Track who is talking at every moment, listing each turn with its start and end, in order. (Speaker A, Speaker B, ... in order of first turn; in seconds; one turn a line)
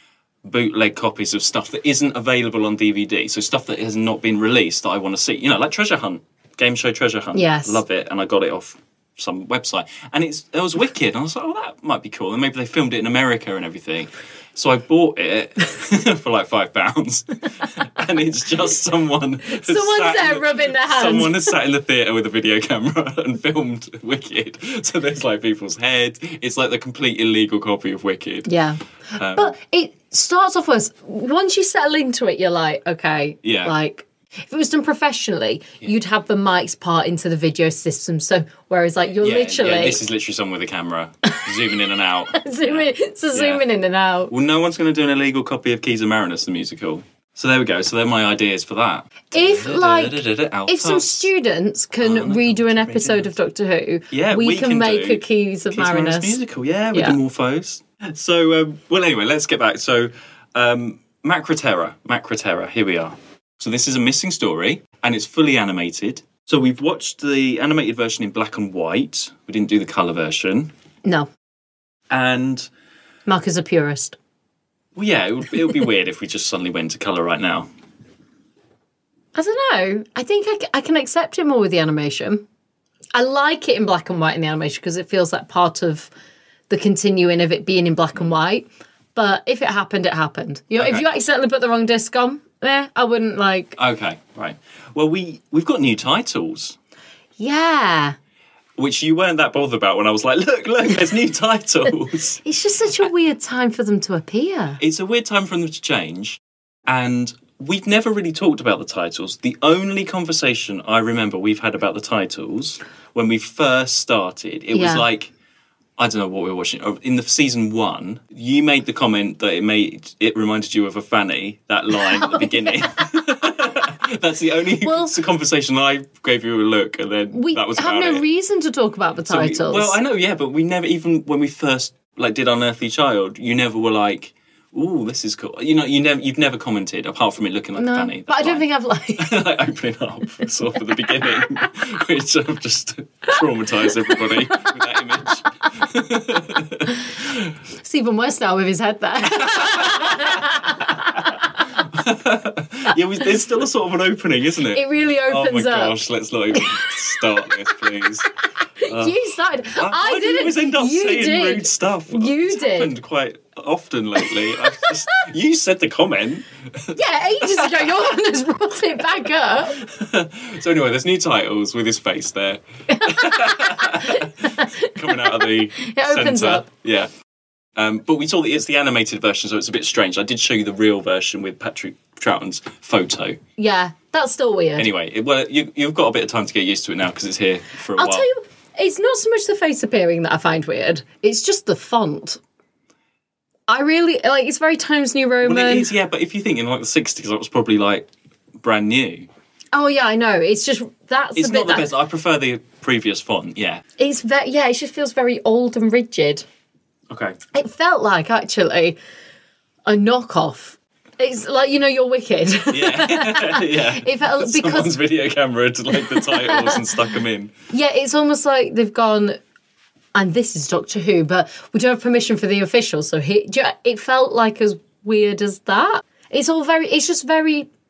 Speaker A: 0.4-28.5
Speaker B: 7.3-7.8
Speaker B: 19.5-21.5
Speaker B: 28.5-40.0
Speaker A: 29.2-29.6
Speaker A: 33.4-33.7
Speaker A: 39.2-43.6
Speaker B: 42.3-44.3
Speaker A: 44.3-51.3
Speaker B: 49.3-56.4
Speaker A: 52.0-53.3
Speaker A: 54.1-70.7
Speaker B: 71.0-71.3
Speaker A: 72.1-72.7
Speaker B: 73.3-74.2
Speaker A: 75.0-77.7
Speaker B: 79.3-82.5
Speaker B: 83.1-86.1
Speaker B: 86.7-93.8
Speaker A: 90.8-91.1
Speaker A: 93.8-96.8
Speaker B: 97.4-98.2
Speaker A: 98.8-102.4
Speaker B: 102.4-104.8
Speaker A: 104.8-115.3
Speaker B: 114.7-115.0
Speaker A: 116.0-128.2
Speaker B: 122.0-122.9
Speaker B: 124.8-125.2
Speaker B: 127.3-130.0
Speaker A: 129.3-138.7
Speaker B: 137.8-139.4
Speaker A: 139.2-147.5
Speaker B: 141.2-141.5
Speaker B: 144.0-144.8
Speaker B: 147.8-151.5
Speaker A: 149.3-151.2
Speaker A: 151.8-158.3
Speaker B: 154.7-156.0
Speaker B: 156.6-156.9
Speaker B: 158.8-162.9
Speaker A: 158.9-159.2
Speaker A: 159.8-168.0
Speaker B: 164.3-164.9
Speaker B: 166.9-169.8
Speaker A: 169.7-177.1
Speaker B: 172.9-176.7
Speaker A: 177.8-183.4
Speaker B: 183.6-184.9
Speaker A: 184.8-188.3
Speaker B: 188.0-192.4
Speaker B: 193.7-195.9
Speaker A: 195.4-198.1
Speaker A: 198.6-199.3
Speaker B: 199.7-201.9
Speaker A: 201.3-203.8
Speaker B: 204.0-206.4
Speaker A: 207.1-207.4
Speaker B: 207.5-209.0
Speaker B: 209.9-215.0
Speaker A: 212.7-217.5
Speaker B: 215.9-216.9
Speaker B: 217.7-219.4
Speaker B: 220.1-227.7